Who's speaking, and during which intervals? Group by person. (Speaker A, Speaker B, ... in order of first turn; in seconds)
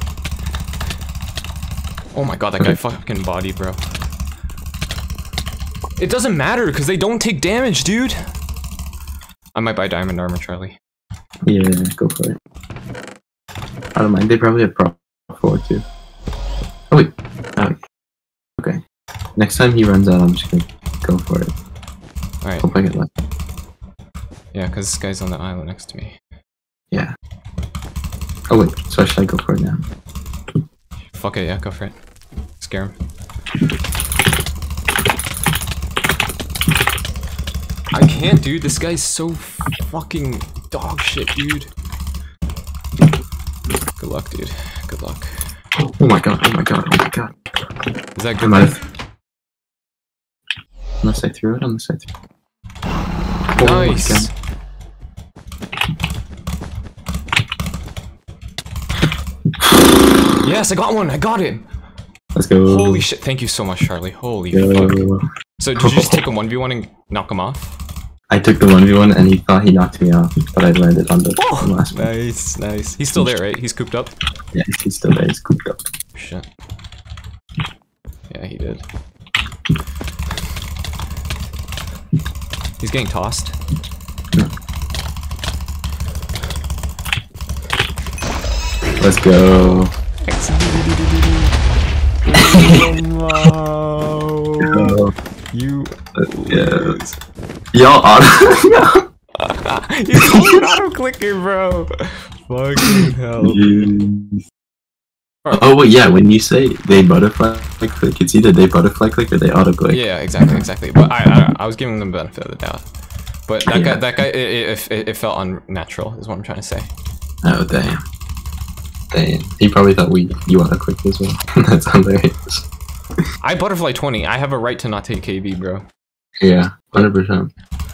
Speaker A: 2.1-3.8, 6.0-8.2, 9.5-10.8, 22.4-22.7, 24.5-26.1, 31.1-31.9, 32.6-33.0, 37.9-41.7, 44.0-45.3, 48.1-48.8, 53.6-54.3, 60.4-61.6, 62.6-65.0, 65.6-67.8, 71.4-74.1, 76.1-76.4, 78.3-78.8, 82.8-83.5, 89.5-91.5, 92.2-94.9, 95.5-97.2, 99.4-103.9, 109.9-112.8, 113.5-116.9, 123.4-125.8
Speaker B: 11.4-12.4, 13.9-15.8, 16.9-17.8, 19.4-21.5, 22.6-23.1, 28.5-29.8, 45.8-47.3, 48.4-48.8, 51.0-52.1, 53.5-54.3, 62.3-63.0, 64.5-65.2, 65.8-66.2, 68.3-72.0, 73.1-73.4, 74.5-75.8, 89.0-89.9, 94.7-95.1, 96.5-97.0, 97.7-99.0, 103.4-104.4, 105.5-110.6, 113.7-114.1, 117.4-118.0, 119.1-122.6, 126.4-127.5